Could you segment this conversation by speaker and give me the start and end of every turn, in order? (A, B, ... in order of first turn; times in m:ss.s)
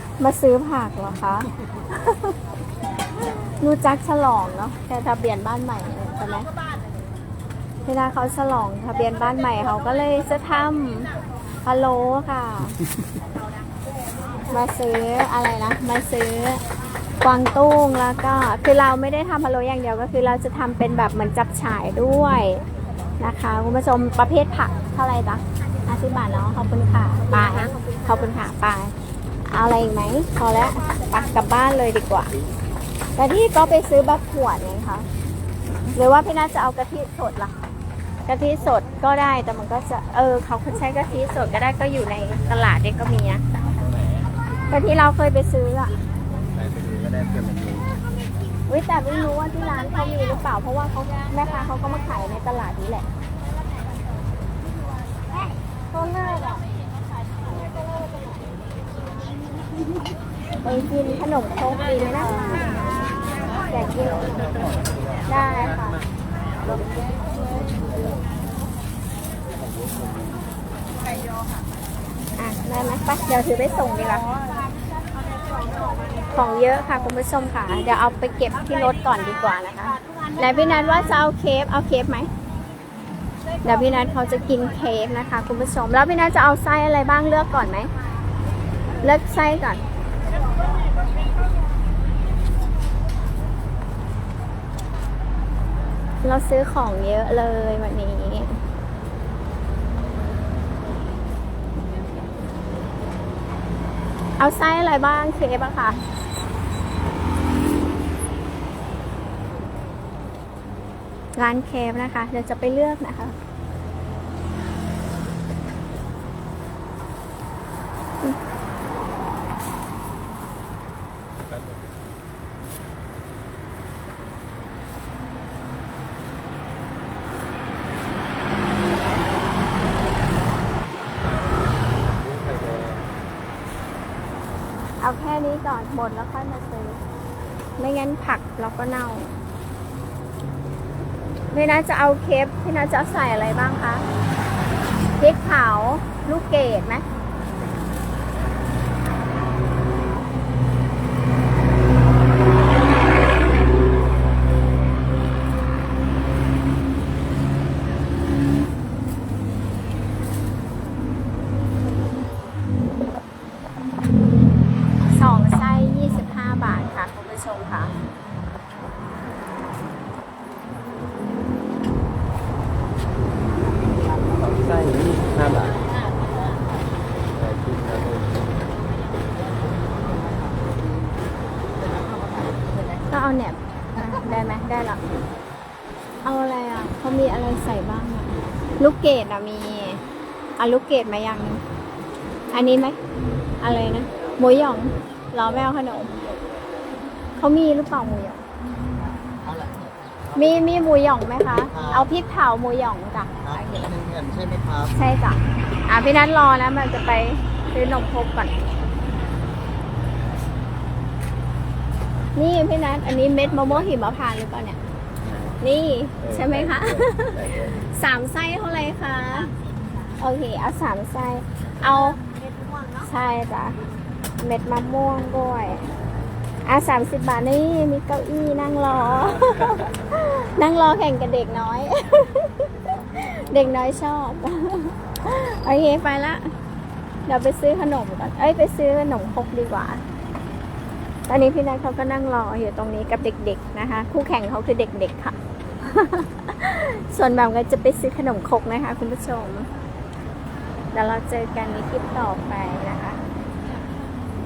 0:00.2-0:02.4 A
0:03.6-0:06.5 A
0:07.9-0:11.1 A
0:11.6-0:12.8 A
0:14.5-0:16.6 A
0:17.2-0:22.6 A
0:23.2-0:28.9 A
0:29.5-0:32.3 A
0:33.2-0:35.1 A
0:35.9-0:37.5 A
0:38.3-0:43.4 A
0:43.8-0:44.3 B
0:44.7-0:46.0 A
0:46.5-0:47.9 B
0:48.7-0:53.1 A
1:00.6-1:02.8 A
1:03.7-1:04.5 A
1:05.3-1:06.0 A
1:09.6-1:10.4 B
1:12.4-1:14.2 A
1:16.3-1:22.3 A
1:23.6-1:27.9 A
1:29.0-1:29.8 A
1:36.2-1:38.6 A
1:44.4-1:46.0 A
1:51.4-1:53.4 A
2:01.5-2:01.8 B
2:11.2-2:13.1 B
2:15.0-2:17.0 A
2:17.8-2:19.3 A
2:21.5-2:24.0 A
2:25.2-2:27.0 A
2:27.6-2:27.9 B
2:45.0-2:48.0 A
2:54.3-2:55.9 B
2:57.3-2:58.7 B
2:59.6-3:00.7 C
3:01.8-3:02.9 C
3:03.1-3:05.0 A
3:06.2-3:10.0 A
3:10.6-3:11.6 A
3:12.5-3:13.0 A
3:13.6-3:16.1 A
3:15.4-3:16.7 B
3:17.4-3:18.4 A
3:19.4-3:19.8 C
3:20.4-3:24.0 A
3:23.9-3:24.9 C
3:24.9-3:28.6 A
3:32.4-3:34.8 A
3:35.2-3:35.6 B
3:35.6-3:39.5 A
3:36.2-3:37.8 B
3:40.2-3:42.2 A
3:42.9-3:43.8 A
3:44.4-3:45.9 A
3:46.7-3:56.5 A
3:57.3-4:00.0 A
4:01.3-4:09.7 A
4:10.9-4:13.2 A